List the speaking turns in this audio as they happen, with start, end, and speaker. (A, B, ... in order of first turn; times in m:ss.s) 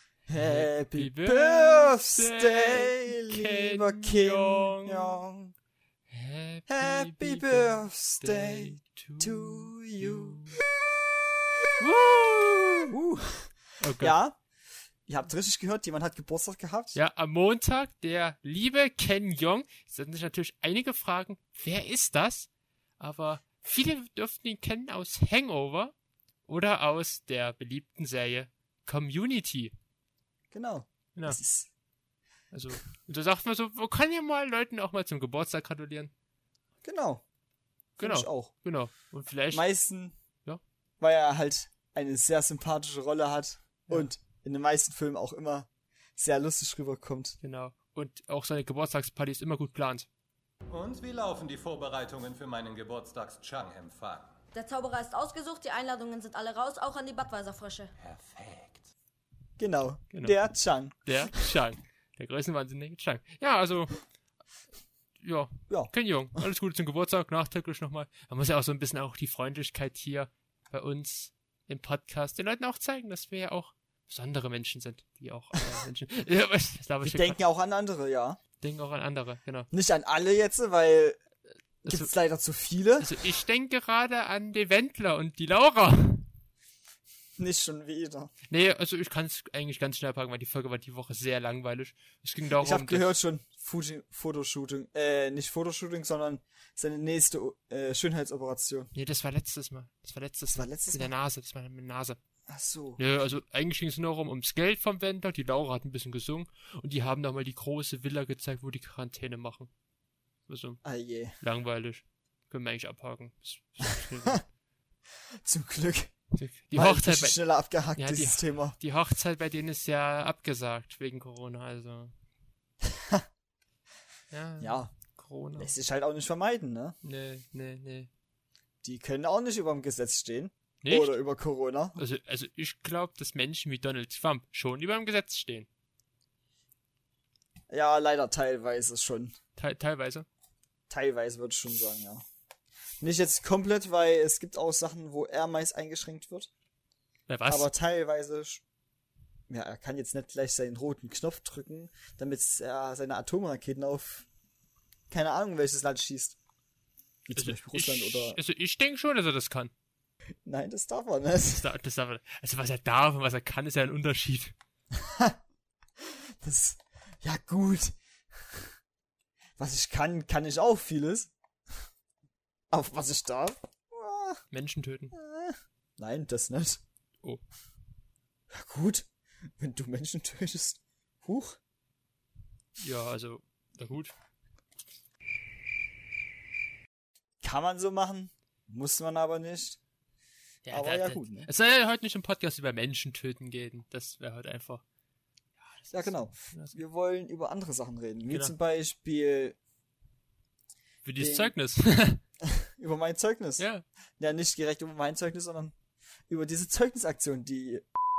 0:00.3-0:05.5 A
0:00.3-0:05.2 B
0:06.1-0:10.6 B
0:06.7-0:10.4 A
0:11.8-0:12.9 B
0:12.9-0:14.4 A
0:13.8-0:14.2 B
0:15.1-0:17.0 A
0:16.9-0:25.9 B
0:26.5-0:29.7 B
0:30.5-0:31.7 A
0:32.5-0:36.1 B
0:36.8-0:37.2 A
0:38.0-0:38.5 A
0:38.0-0:39.6 B
0:39.5-0:40.2 A
0:41.0-0:47.4 A
0:47.4-0:50.1 B
0:50.7-0:54.3 C
0:54.5-0:57.9 D
0:59.6-1:01.5 A
1:01.0-1:04.0 B
1:05.2-1:17.4 B
1:17.0-1:18.4 A
1:18.6-1:19.7 B
1:19.7-1:21.2 A
1:21.8-1:23.2 A
1:21.8-1:22.1 B
1:23.0-1:26.3 B
1:27.4-1:28.3 A
1:28.5-1:33.2 B
1:32.6-1:38.9 A
1:38.9-1:42.2 B
1:40.5-1:41.1 A
1:42.5-1:43.0 A
1:43.0-1:49.7 B
1:50.5-1:50.8 B
1:50.8-1:51.4 A
1:51.4-1:54.4 B
1:55.4-1:56.1 A
1:56.4-1:57.4 B
1:56.7-1:58.8 A
1:58.0-2:02.1 B
2:02.8-2:03.2 A
2:04.3-2:05.7 B
2:04.6-2:04.9 A
2:05.6-2:07.0 A
2:07.0-2:08.1 B
2:08.8-2:12.0 A
2:10.8-2:11.2 B
2:12.0-2:15.7 B
2:17.7-2:19.4 A
2:19.6-2:20.3 B
2:20.9-2:22.2 A
2:23.0-2:26.5 A
2:27.3-2:27.7 B
2:27.5-2:28.6 A
2:29.5-2:34.3 A
2:35.1-2:36.4 A
2:37.3-2:38.4 A
2:37.4-2:39.7 B
2:40.4-2:41.7 A
2:41.5-2:44.6 B
2:45.0-2:45.4 A
2:46.0-2:48.7 A
2:49.6-2:51.3 A
2:52.7-2:54.4 A
2:54.5-2:55.2 B
2:55.1-2:56.8 A
2:58.5-2:59.1 A
2:59.6-3:01.6 A
3:02.8-3:04.1 B
3:07.4-3:09.8 A
3:10.7-3:14.8 B
3:10.7-3:11.5 A
3:15.6-3:16.8 B
3:15.9-3:19.6 A
3:18.3-3:18.5 B
3:21.0-3:22.2 B
3:21.2-3:21.5 A
3:22.4-3:23.6 A
3:23.6-3:23.8 B
3:24.2-3:25.8 A
3:26.3-3:27.9 A